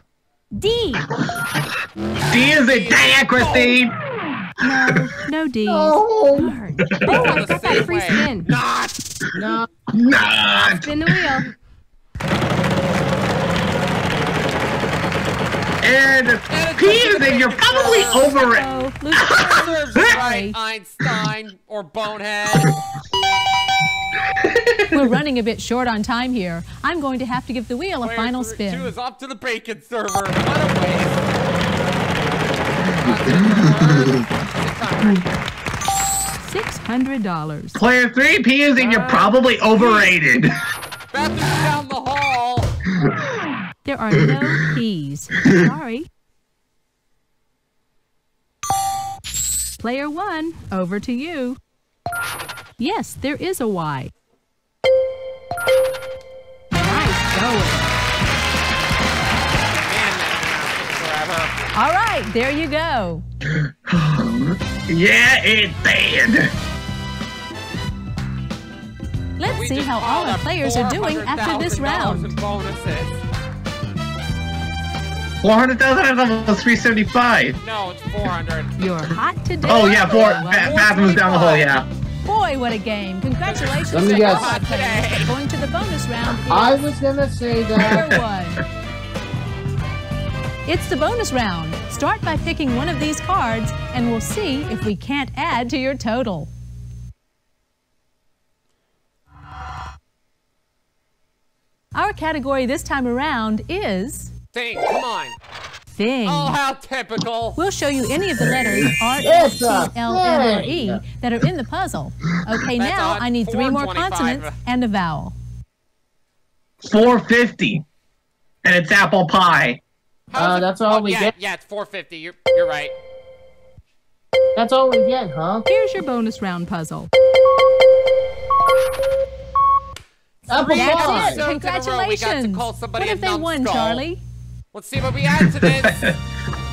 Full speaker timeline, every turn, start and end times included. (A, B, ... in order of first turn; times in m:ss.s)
0:00.6-0:01.0 A
0:02.3-0:03.9 B
0:02.7-0:03.8 C
0:04.6-0:06.0 D
0:05.7-0:07.8 B
0:06.3-0:08.5 A
0:07.0-0:09.0 C
0:09.3-0:09.7 E
0:09.4-0:11.4 B
0:10.5-0:11.5 A
0:15.8-0:20.0 B
0:16.5-0:18.3 C
0:18.3-0:20.6 D
0:19.6-0:22.7 C
0:24.4-0:25.0 B
0:24.9-0:28.9 D
0:28.0-0:31.2 C
0:33.0-0:35.3 C
0:33.0-0:34.2 B
0:36.4-0:37.8 D
0:37.7-0:40.5 B
0:38.8-0:40.1 C
0:41.1-0:42.7 C
0:43.8-0:46.1 D
0:49.8-0:51.6 D
0:52.8-0:54.1 D
0:56.7-0:57.9 D
0:59.7-1:01.5 C
1:01.7-1:03.2 D
1:03.9-1:06.5 B
1:09.4-1:12.3 D
1:09.5-1:13.2 C
1:15.4-1:17.6 B
1:17.6-1:18.7 C
1:18.8-1:20.8 D
1:19.6-1:21.8 B
1:20.1-1:21.7 C
1:22.2-1:26.9 D
1:23.9-1:24.5 E
1:24.0-1:25.3 C
1:26.5-1:28.1 E
1:27.8-1:28.6 D
1:30.6-1:36.5 D
1:41.9-1:44.3 D
1:44.5-1:45.4 C
1:45.9-1:46.6 D
1:46.2-1:47.6 C
1:47.6-1:55.4 D
1:48.5-1:48.8 B
1:49.2-1:51.0 E
1:52.8-1:54.6 C
1:56.8-1:57.8 B
1:58.6-1:59.8 B
2:00.3-2:02.9 C
2:00.3-2:01.3 E
2:04.6-2:05.6 E
2:05.7-2:07.1 D
2:10.5-2:11.4 E
2:10.6-2:14.2 D
2:10.7-2:14.0 C
2:14.7-2:16.0 C
2:15.3-2:16.2 B